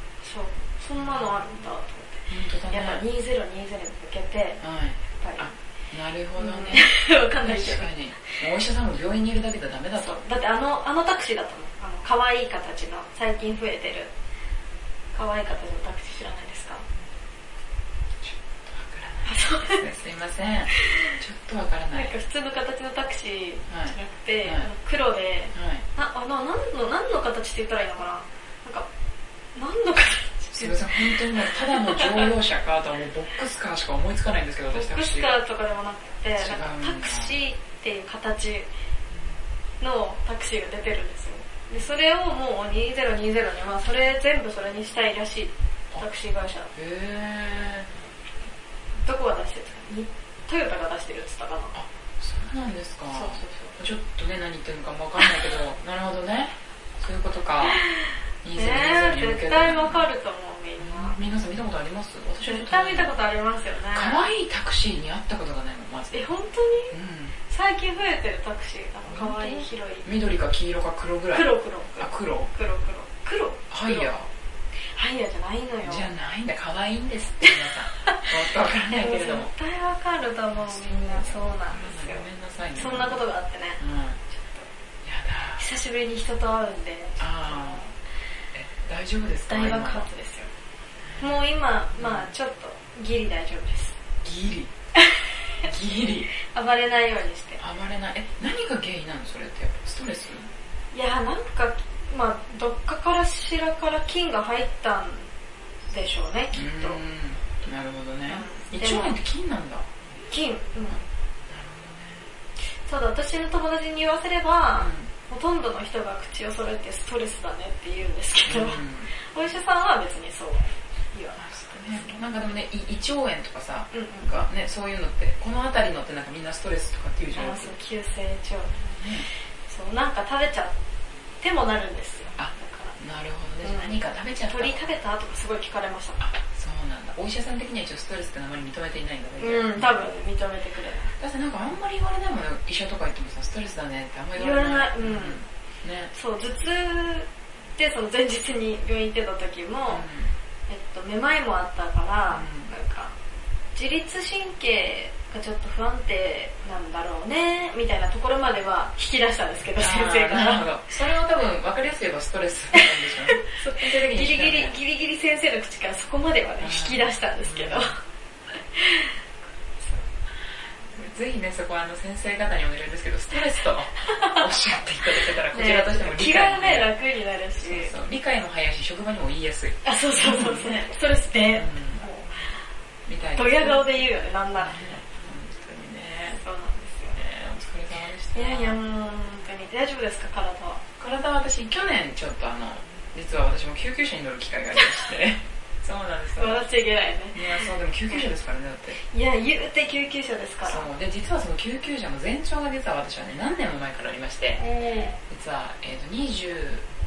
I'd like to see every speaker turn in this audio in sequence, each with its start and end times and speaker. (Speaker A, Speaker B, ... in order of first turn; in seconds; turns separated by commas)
Speaker A: 0.2-4.6, Speaker B: 1.0-1.3, Speaker B: 2.3-3.0, Speaker B: 4.6-10.2, Speaker A: 5.1-5.5, Speaker A: 6.4-7.9, Speaker A: 10.0-14.1, Speaker A: 15.1-16.8, Speaker B: 18.2-22.1, Speaker A: 19.2-19.8, Speaker A: 20.7-21.2, Speaker A: 21.9-28.9, Speaker B: 23.7-24.7, Speaker B: 25.5-25.8, Speaker A: 29.5-32.3, Speaker B: 30.5-35.4, Speaker A: 34.7-38.7, Speaker B: 36.4-37.3, Speaker A: 39.8-46.7, Speaker B: 46.7-47.9, Speaker A: 49.0-51.7, Speaker B: 51.7-57.8, Speaker A: 53.1-53.7, Speaker A: 57.6-61.2, Speaker B: 58.4-60.0, Speaker B: 60.8-63.1, Speaker A: 62.5-64.2, Speaker B: 63.9-66.3, Speaker A: 66.1-67.0, Speaker B: 66.9-67.3, Speaker A: 67.5-70.0, Speaker B: 69.1-72.5, Speaker A: 71.3-74.1, Speaker B: 73.7-74.3, Speaker A: 74.9-76.1, Speaker B: 75.8-79.5, Speaker A: 77.5-78.3, Speaker A: 78.9-84.7, Speaker B: 80.6-83.2, Speaker B: 83.8-84.2, Speaker B: 85.0-85.6, Speaker A: 85.6-87.9, Speaker B: 87.2-87.8, Speaker B: 88.5-90.1, Speaker A: 89.5-90.5, Speaker A: 91.2-94.0, Speaker B: 92.0-92.3, Speaker B: 94.2-94.7, Speaker A: 95.0-95.7, Speaker B: 95.6-96.3, Speaker A: 96.3-97.6, Speaker B: 97.6-100.5, Speaker A: 100.9-105.3, Speaker A: 105.9-107.0, Speaker B: 106.5-109.8, Speaker A: 108.3-109.2, Speaker A: 110.3-111.0, Speaker B: 111.5-112.2, Speaker A: 112.8-122.2, Speaker B: 114.8-115.1, Speaker B: 118.5-119.1, Speaker B: 121.4-127.7, Speaker A: 123.9-124.3, Speaker A: 127.3-128.9, Speaker B: 129.0-129.3, Speaker A: 129.7-130.7, Speaker A: 131.4-132.9, Speaker B: 132.4-134.9, Speaker A: 133.6-136.2, Speaker B: 136.2-140.1, Speaker A: 139.4-141.1, Speaker B: 141.2-146.1, Speaker A: 144.3-145.4, Speaker A: 146.1-150.0, Speaker B: 149.9-150.3, Speaker A: 150.7-153.1, Speaker B: 152.3-152.7, Speaker A: 153.7-160.7, Speaker B: 159.8-164.8, Speaker A: 162.7-168.0, Speaker B: 166.6-167.9, Speaker A: 168.7-169.2, Speaker B: 170.9-176.9, Speaker A: 174.0-174.5, Speaker A: 175.1-177.9, Speaker B: 177.6-180.8, Speaker A: 179.8-182.5, Speaker B: 181.5-182.0, Speaker B: 183.1-184.0, Speaker A: 183.3-184.9, Speaker B: 184.5-186.4, Speaker A: 186.3-187.2, Speaker B: 187.1-188.8, Speaker A: 188.3-190.8, Speaker B: 191.0-196.6, Speaker A: 196.4-198.2, Speaker B: 197.3-199.0, Speaker A: 199.1-200.9, Speaker B: 200.6-204.6, Speaker A: 204.6-205.2, Speaker B: 205.3-206.8